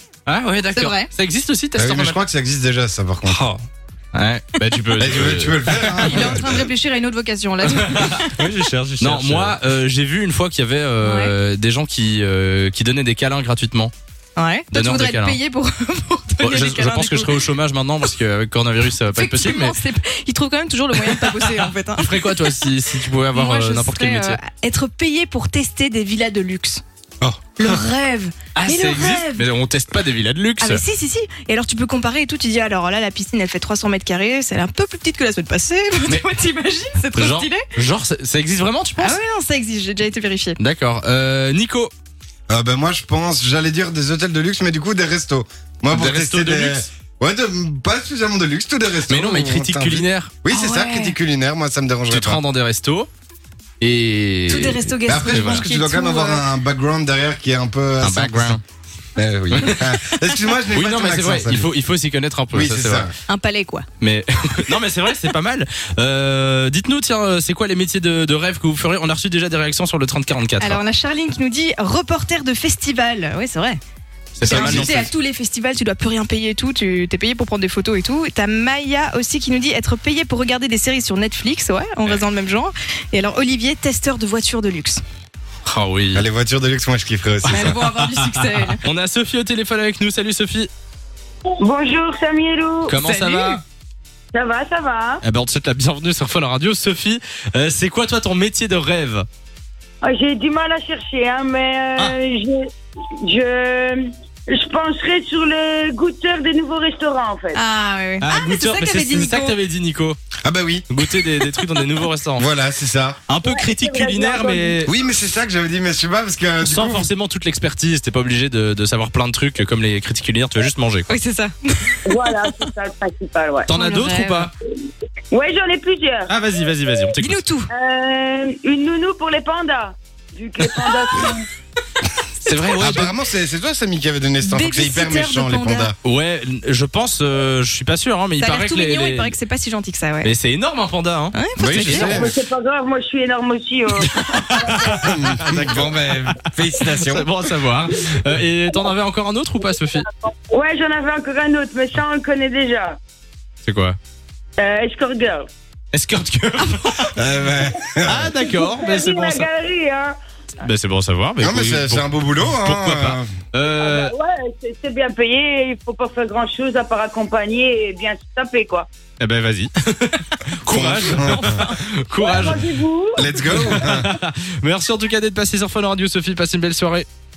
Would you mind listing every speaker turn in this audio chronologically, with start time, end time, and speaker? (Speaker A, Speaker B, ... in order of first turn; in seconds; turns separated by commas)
Speaker A: 0.3-2.2, Speaker B: 0.7-1.1, Speaker C: 1.8-3.4, Speaker D: 3.2-3.6, Speaker A: 4.1-6.2, Speaker C: 5.0-6.6, Speaker B: 5.9-8.3, Speaker D: 7.9-9.6, Speaker A: 9.0-13.9, Speaker B: 11.0-11.3, Speaker B: 14.4-17.5, Speaker A: 14.7-15.4, Speaker A: 16.4-19.8, Speaker B: 19.1-22.7, Speaker A: 21.0-24.4, Speaker B: 23.3-26.8, Speaker A: 27.2-27.8, Speaker B: 27.6-29.5, Speaker A: 28.6-30.8, Speaker B: 30.6-37.6, Speaker A: 37.1-39.2, Speaker B: 39.0-40.6, Speaker A: 40.6-41.9, Speaker C: 42.5-52.4, Speaker A: 45.9-46.9, Speaker A: 49.1-50.3, Speaker B: 50.5-51.2, Speaker A: 52.1-53.1, Speaker A: 53.8-55.7, Speaker B: 54.5-56.5, Speaker C: 55.0-58.6, Speaker A: 58.0-58.6, Speaker C: 59.2-61.7, Speaker A: 59.5-59.8, Speaker A: 60.7-63.1, Speaker C: 62.5-63.1, Speaker B: 63.3-63.9, Speaker A: 64.0-70.8, Speaker B: 70.6-73.8, Speaker A: 74.3-75.1, Speaker B: 74.4-85.0, Speaker C: 74.4-75.0, Speaker A: 85.7-86.3, Speaker C: 86.1-87.8, Speaker A: 87.4-90.7, Speaker B: 87.5-88.8, Speaker E: 91.6-93.0, Speaker A: 92.9-93.6, Speaker B: 93.0-93.6, Speaker E: 94.3-95.2, Speaker A: 95.2-99.3, Speaker E: 100.0-102.7, Speaker E: 103.2-107.6, Speaker B: 107.5-109.6, Speaker A: 108.2-110.2, Speaker C: 110.4-110.9, Speaker A: 110.9-112.5, Speaker C: 112.4-113.2, Speaker A: 113.3-114.9, Speaker E: 113.4-114.8, Speaker C: 114.9-117.1, Speaker A: 116.6-121.1, Speaker B: 121.1-122.7, Speaker E: 122.1-123.7, Speaker A: 123.7-124.5, Speaker B: 123.7-124.5, Speaker E: 125.3-126.3, Speaker A: 126.3-127.4, Speaker B: 127.2-127.7, Speaker E: 127.7-131.5, Speaker A: 132.4-133.1, Speaker C: 132.8-135.9, Speaker B: 134.4-135.9, Speaker A: 136.0-139.3, Speaker B: 138.4-140.3, Speaker A: 140.2-142.2, Speaker B: 141.3-142.2, Speaker C: 141.6-142.3, Speaker E: 142.0-145.2, Speaker A: 144.0-146.0, Speaker C: 145.0-147.3, Speaker A: 146.8-150.1, Speaker E: 150.5-153.0, Speaker A: 153.6-154.0, Speaker E: 154.6-155.5, Speaker A: 155.9-157.2, Speaker C: 157.2-158.3, Speaker A: 158.0-159.5, Speaker E: 158.4-160.2, Speaker A: 160.6-164.1, Speaker C: 161.4-163.3, Speaker E: 163.8-168.9, Speaker A: 169.2-172.7, Speaker C: 170.7-171.6, Speaker E: 172.2-173.3, Speaker C: 173.2-174.1, Speaker A: 173.5-177.1